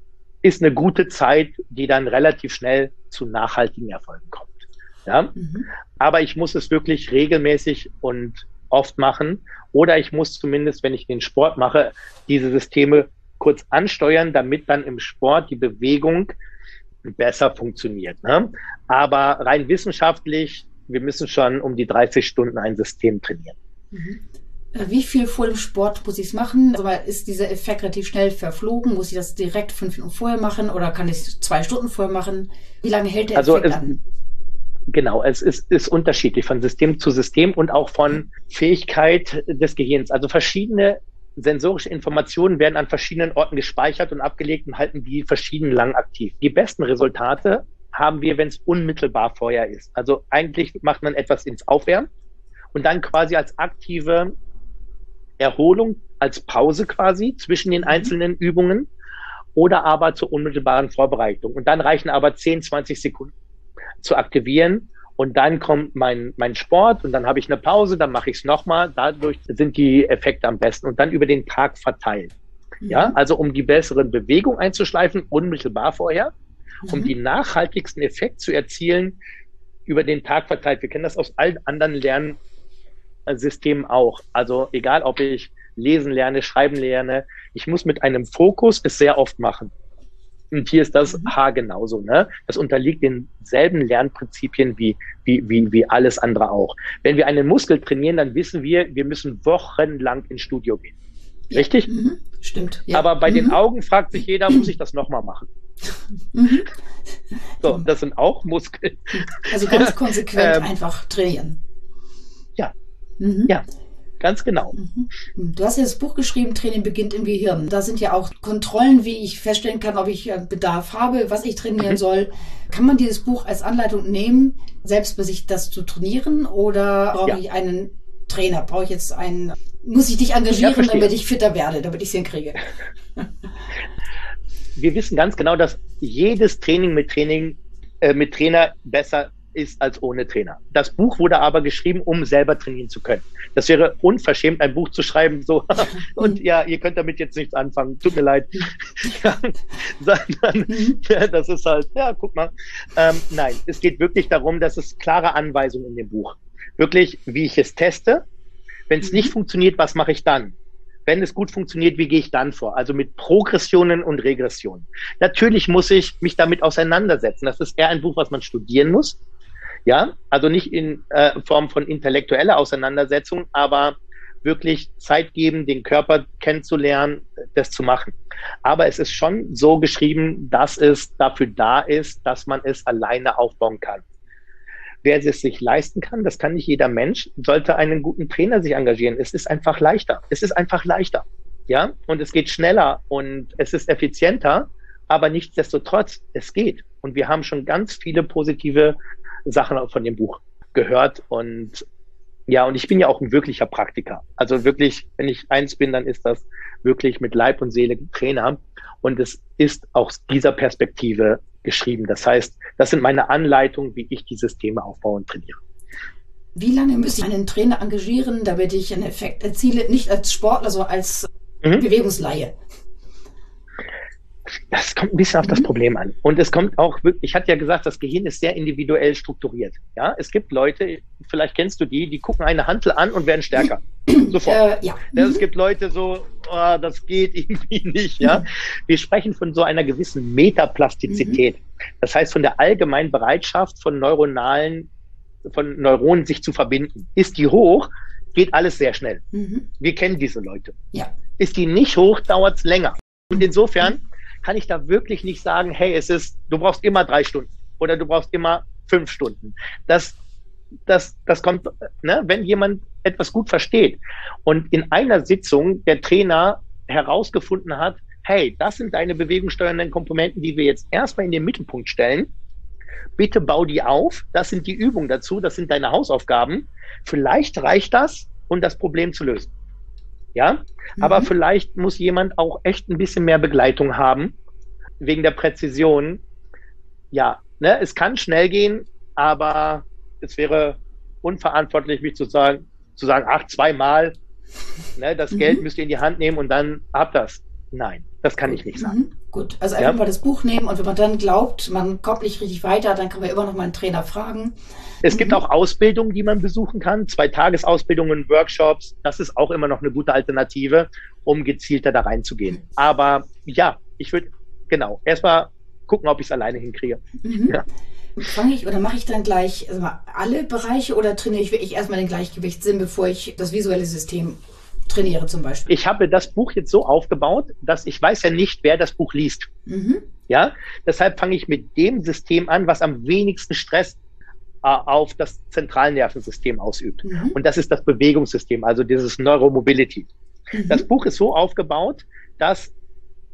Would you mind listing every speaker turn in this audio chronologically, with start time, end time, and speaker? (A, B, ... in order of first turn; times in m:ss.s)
0:00.4-0:05.3 A
0:05.3-0:05.7 B
0:06.0-0:16.3 A
0:17.0-0:23.6 A
0:23.9-0:24.2 B
0:24.7-0:34.0 B
0:33.3-0:33.9 A
0:34.9-0:52.1 A
0:52.7-0:54.3 A
0:55.4-0:58.9 A
0:57.8-0:58.1 B
0:59.5-1:03.3 A
1:04.0-1:12.3 A
1:12.8-1:13.2 B
1:12.9-1:16.3 A
1:16.8-1:17.1 B
1:16.9-1:19.2 A
1:19.9-1:22.4 A
1:23.3-1:29.7 A
1:30.5-1:41.0 A
1:31.1-1:31.3 B
1:41.5-1:43.6 B
1:41.5-1:41.9 A
1:42.9-1:45.4 A
1:46.3-1:46.7 B
1:47.6-1:50.7 A
1:49.1-1:51.6 B
1:53.2-1:53.5 B
1:54.2-1:54.7 A
1:54.7-2:13.2 B
2:10.6-2:11.1 A
2:14.8-2:38.2 A
2:30.7-2:31.0 B
2:38.9-2:49.2 A
2:39.0-2:39.3 B
2:49.8-3:04.0 A
3:05.0-3:21.8 A
3:22.5-3:35.6 A
3:36.5-3:42.5 B
3:44.7-3:54.6 A
3:45.4-3:45.7 B
3:54.1-3:55.4 B
3:55.1-4:04.9 A
4:01.1-4:01.4 B
4:05.4-4:09.2 A
4:09.3-4:09.7 B
4:09.8-4:10.7 A
4:11.4-4:20.2 A
4:20.9-4:32.3 A
4:33.2-4:39.5 A
4:40.3-4:44.3 A
4:41.0-4:41.3 B
4:45.0-4:46.2 A
4:47.1-4:54.2 A
4:55.0-4:59.0 A
4:55.3-4:55.6 B
4:58.7-5:04.5 B
5:05.0-5:17.6 A
5:05.1-5:05.4 B
5:17.2-5:17.6 B
5:18.2-5:25.7 B
5:25.7-5:29.5 A
5:29.7-5:30.0 B
5:30.3-5:34.0 A
5:34.6-5:40.1 A
5:37.0-5:37.4 B
5:40.5-5:40.8 B
5:40.7-5:42.7 A